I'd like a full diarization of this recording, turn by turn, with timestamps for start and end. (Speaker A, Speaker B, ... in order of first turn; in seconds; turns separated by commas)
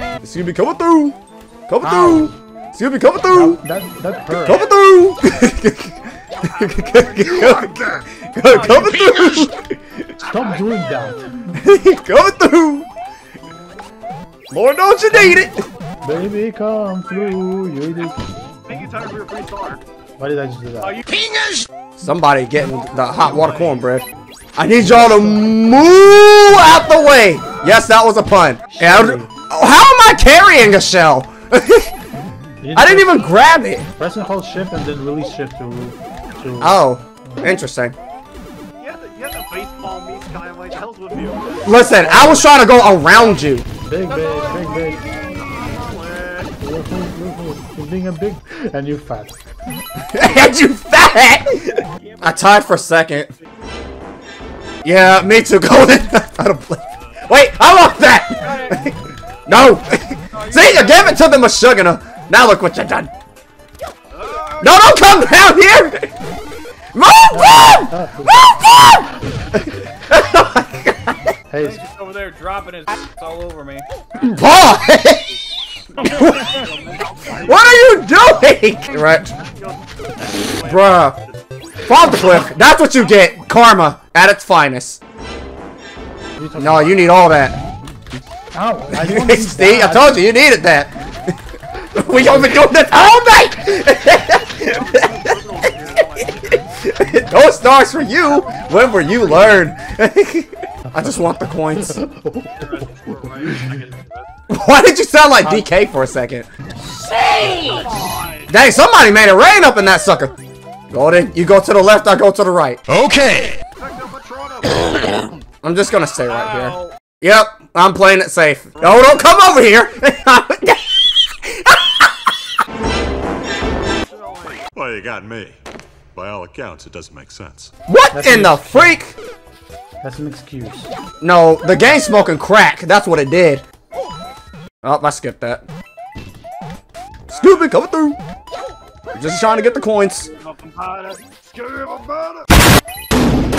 Speaker A: 0.2-1.2, Speaker A: 1.7-3.6, Speaker B: 1.8-2.3, Speaker B: 3.3-4.7, Speaker A: 4.4-6.0, Speaker C: 6.4-7.7, Speaker A: 6.5-10.0, Speaker D: 8.4-9.5, Speaker B: 10.2-11.5, Speaker A: 11.6-12.9, Speaker A: 14.5-15.7, Speaker B: 15.1-15.5, Speaker B: 16.0-18.2, Speaker C: 18.7-19.8, Speaker B: 20.2-21.0, Speaker D: 20.8-21.3, Speaker A: 22.0-24.1, Speaker A: 24.6-31.9, Speaker B: 24.8-26.0, Speaker B: 28.7-29.3, Speaker B: 32.6-33.3, Speaker A: 32.8-33.9, Speaker B: 34.0-37.6, Speaker A: 36.6-38.0, Speaker C: 38.8-41.9, Speaker A: 41.6-43.7, Speaker B: 41.8-42.5, Speaker C: 43.1-43.4, Speaker B: 43.8-45.0, Speaker D: 44.2-44.6, Speaker C: 45.3-46.5, Speaker B: 46.6-49.4, Speaker A: 50.1-53.3, Speaker C: 51.7-53.5, Speaker A: 54.8-63.1, Speaker C: 57.0-57.2, Speaker D: 58.4-58.8, Speaker D: 60.3-61.2, Speaker C: 64.1-65.1, Speaker A: 64.6-66.1, Speaker A: 66.9-71.3, Speaker B: 67.3-68.5, Speaker B: 71.5-71.8, Speaker D: 71.6-73.9, Speaker A: 74.2-75.3, Speaker C: 76.0-82.2, Speaker A: 76.0-76.6, Speaker A: 77.4-79.3, Speaker A: 80.6-81.2, Speaker A: 81.9-85.0, Speaker B: 86.4-87.1, Speaker A: 86.6-87.6, Speaker B: 88.5-90.3, Speaker A: 88.9-90.9, Speaker A: 92.0-95.3, Speaker C: 94.6-96.6, Speaker A: 96.5-102.0, Speaker B: 100.9-102.8, Speaker C: 102.5-104.3, Speaker A: 104.5-106.5, Speaker B: 105.4-105.7, Speaker D: 106.9-108.0, Speaker C: 107.7-108.5, Speaker A: 108.5-110.3, Speaker A: 110.9-112.8, Speaker E: 113.0-113.5, Speaker C: 113.2-115.3, Speaker A: 115.6-122.3, Speaker D: 116.3-116.9, Speaker C: 124.0-124.7, Speaker E: 124.8-125.5, Speaker E: 126.2-127.7, Speaker A: 127.9-129.1, Speaker B: 128.1-129.0, Speaker B: 130.0-130.9, Speaker A: 131.2-133.6, Speaker A: 134.8-135.7, Speaker A: 137.3-138.2, Speaker A: 139.2-140.3, Speaker C: 140.3-142.4